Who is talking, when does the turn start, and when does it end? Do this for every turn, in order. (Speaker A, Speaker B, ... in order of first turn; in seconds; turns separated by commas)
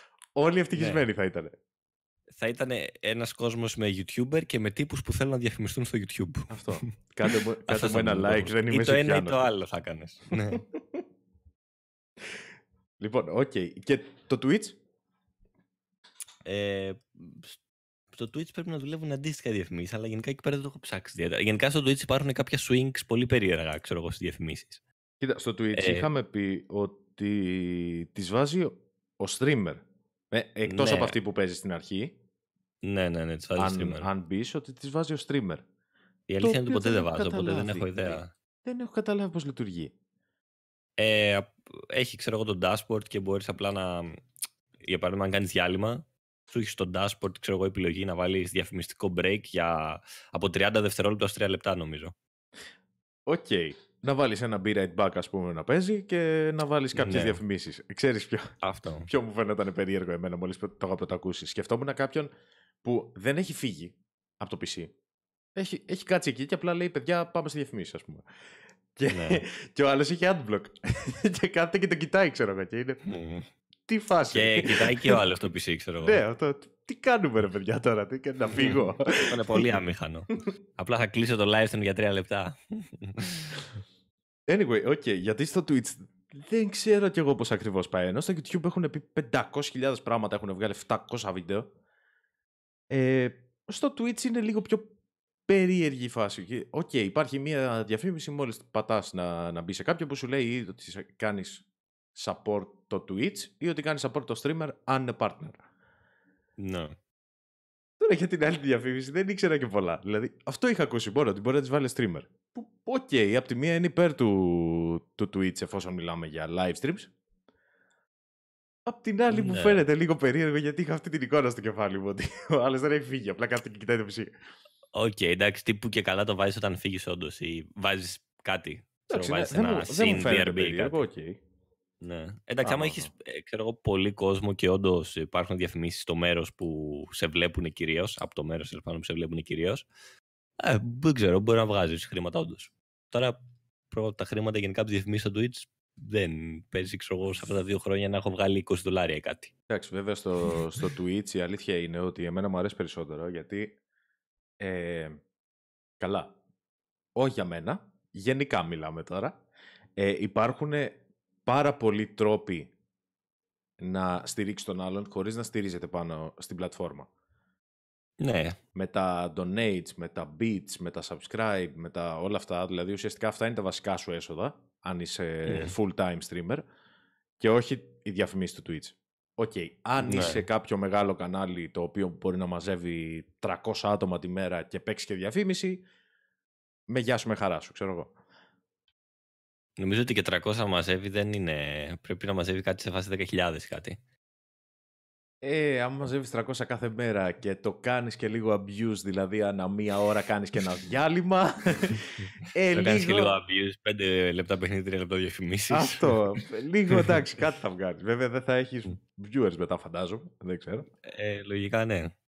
Speaker A: 0.4-1.6, Speaker B: 0.8-1.1, Speaker B: 2.3-6.7, Speaker A: 6.5-9.5, Speaker B: 7.7-10.6, Speaker A: 10.5-10.8, Speaker A: 13.0-14.8, Speaker B: 16.4-17.6, Speaker B: 18.1-24.8, Speaker A: 25.2-32.2, Speaker B: 25.8-26.1, Speaker B: 30.7-31.2, Speaker B: 32.8-34.1, Speaker A: 33.6-35.6, Speaker B: 36.3-38.3, Speaker A: 36.4-39.9, Speaker B: 41.0-44.2, Speaker B: 44.8-52.1, Speaker A: 53.3-58.5, Speaker B: 57.0-57.4, Speaker B: 58.6-59.1, Speaker A: 59.1-62.3, Speaker A: 62.8-64.9, Speaker A: 65.5-68.2, Speaker A: 69.0-73.0, Speaker B: 69.1-69.4, Speaker B: 73.1-73.5, Speaker A: 73.9-75.2, Speaker B: 74.3-76.2, Speaker A: 76.0-79.7, Speaker B: 78.5-83.7, Speaker A: 84.5-91.7, Speaker A: 92.9-94.9, Speaker A: 95.5-101.6, Speaker A: 102.2-105.6, Speaker B: 106.6-107.0, Speaker A: 108.0-117.1, Speaker A: 118.9-124.3, Speaker B: 119.3-119.8, Speaker B: 124.9-131.0, Speaker A: 129.1-131.4, Speaker B: 132.0-139.9, Speaker A: 132.6-133.1, Speaker B: 140.6-143.4, Speaker B: 143.9-149.5, Speaker A: 149.7-153.8, Speaker A: 154.6-155.2, Speaker A: 156.0-156.3, Speaker A: 157.2-159.3, Speaker A: 160.0-162.7, Speaker A: 163.8-167.1, Speaker B: 168.2-168.6, Speaker A: 168.8-176.6, Speaker B: 175.5-175.7, Speaker A: 177.4-185.8, Speaker B: 180.0-180.4, Speaker A: 186.9-188.2, Speaker B: 189.8-194.0, Speaker A: 195.4-203.3, Speaker B: 202.7-206.2, Speaker A: 205.7-210.9, Speaker B: 206.9-207.2, Speaker B: 211.1-212.1